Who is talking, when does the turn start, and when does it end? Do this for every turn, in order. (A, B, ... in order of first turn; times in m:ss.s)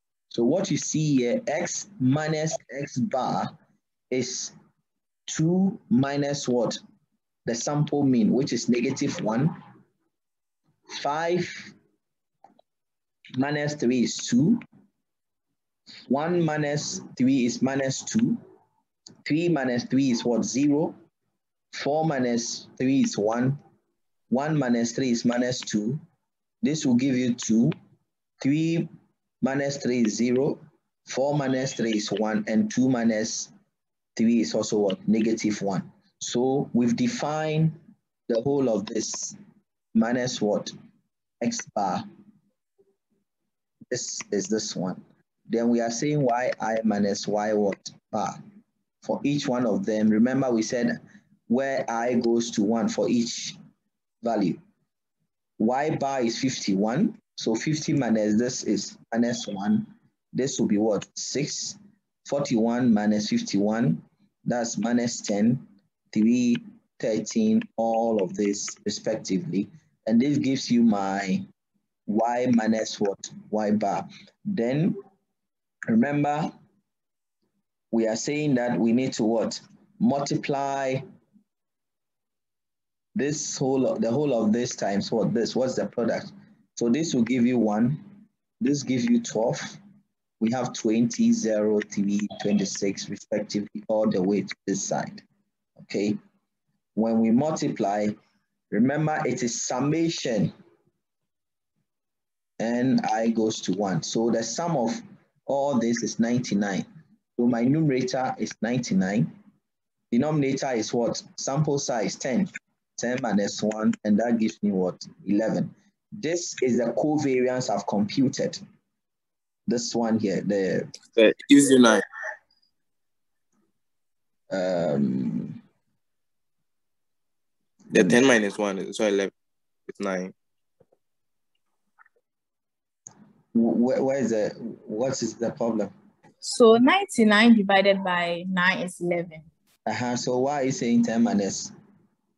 0:00.3-0:03.5 A
0:04.1-0:04.6 A
0:05.3-0:06.8 A
0:07.5-0:09.5 A
0:10.9-0:11.7 A
0:13.4-0:14.6 A
0:16.1-0:18.4 A
0:19.2-0:21.0 A
0:21.7-0:23.6 A
0:24.3-0:26.0 A
0:26.6-0:27.8 A
0:28.4-0:28.9 A
0:29.4-0:33.5 A
0:34.2-0:37.8 A
0:38.3-0:39.4 A
0:39.9-0:40.7 A
0:41.4-0:42.1 A
0:43.9-0:48.4 A
0:49.0-0:53.6 A
0:54.2-0:54.6 A
0:55.6-1:11.4 A
1:12.1-1:15.0 A
1:15.9-1:16.5 A
1:17.9-1:21.0 A
1:23.2-1:28.1 A
1:28.6-1:29.8 A
1:30.4-1:35.2 A
1:35.8-1:36.2 A
1:37.0-1:38.2 A
1:38.7-1:40.5 A
1:42.6-1:49.3 A
1:50.1-1:58.6 A
1:59.7-2:00.9 A
2:01.2-2:02.0 B
2:04.5-2:05.6 A
2:07.9-2:09.3 B
2:09.9-2:10.3 B
2:13.5-2:15.9 A
2:16.4-2:19.5 C
2:19.9-2:21.7 A